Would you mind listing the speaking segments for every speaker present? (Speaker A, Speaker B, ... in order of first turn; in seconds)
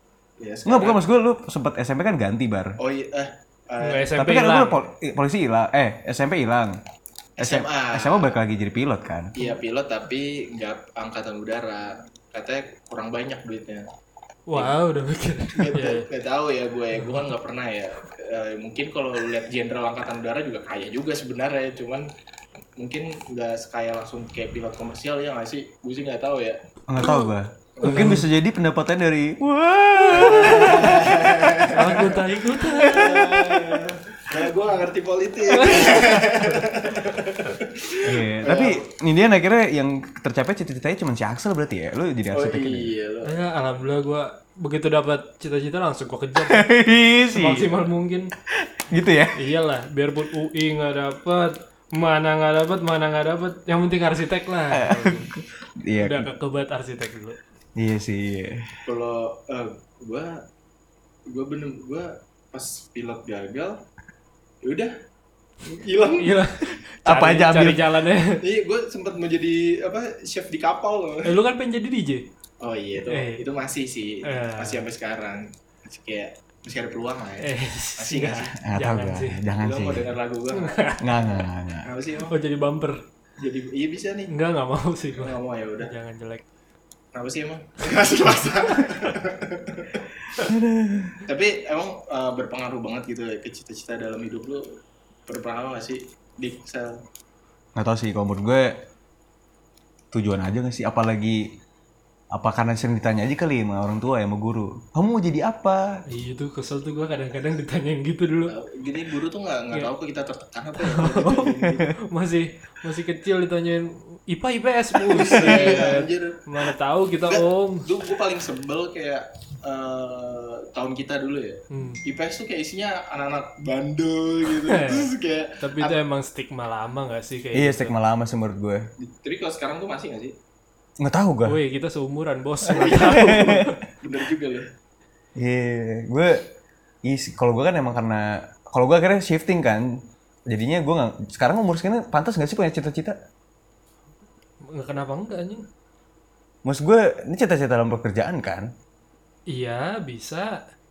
Speaker A: 0.4-1.0, 2.8-4.1, 7.4-8.4, 9.3-13.8, 15.5-22.1, 22.8-26.6, 27.8-28.2, 30.1-38.8, 42.3-43.3, 58.9-60.4, 61.3-63.8, 64.6-64.9, 65.8-66.4, 68.4-71.3, 72.6-78.5, 79.6-80.8, 81.8-82.3, 83.4-84.3, 85.2-85.9, 87.1-90.0, 91.2-94.7, 95.3-97.0, 108.5-111.9, 115.0-116.4, 117.3-126.0, 129.0-130.3, 132.7-134.7
Speaker B: 0.7-2.8, 4.2-6.8, 7.4-9.3, 26.9-31.6, 38.0-42.9, 46.5-47.7, 48.5-49.4, 54.7-56.3, 57.8-58.6, 67.0-67.8, 78.6-80.1, 81.0-81.9, 90.4-91.2, 97.7-98.8, 100.1-101.5, 102.3-106.0, 111.3-111.8, 127.5-128.8, 131.0-131.6, 132.9-133.7, 135.3-136.4, 137.0-139.9, 140.5-143.2, 146.6-148.7
Speaker C: 3.8-4.8, 14.5-16.0, 16.9-17.2, 27.0-28.2, 30.2-31.0, 31.6-34.0, 35.5-36.6, 43.2-46.7, 47.3-48.3, 49.3-55.2, 56.0-57.4, 65.7-68.4, 71.2-72.2, 73.0-73.4, 74.2-74.8, 77.4-79.4, 80.5-81.1, 82.3-83.0, 84.3-86.4, 88.7-89.1, 106.1-108.5, 110.8-111.5, 112.1-117.8, 121.7-122.0, 124.6-125.1, 125.6-127.9, 131.4-133.7, 144.6-145.6, 149.5-150.6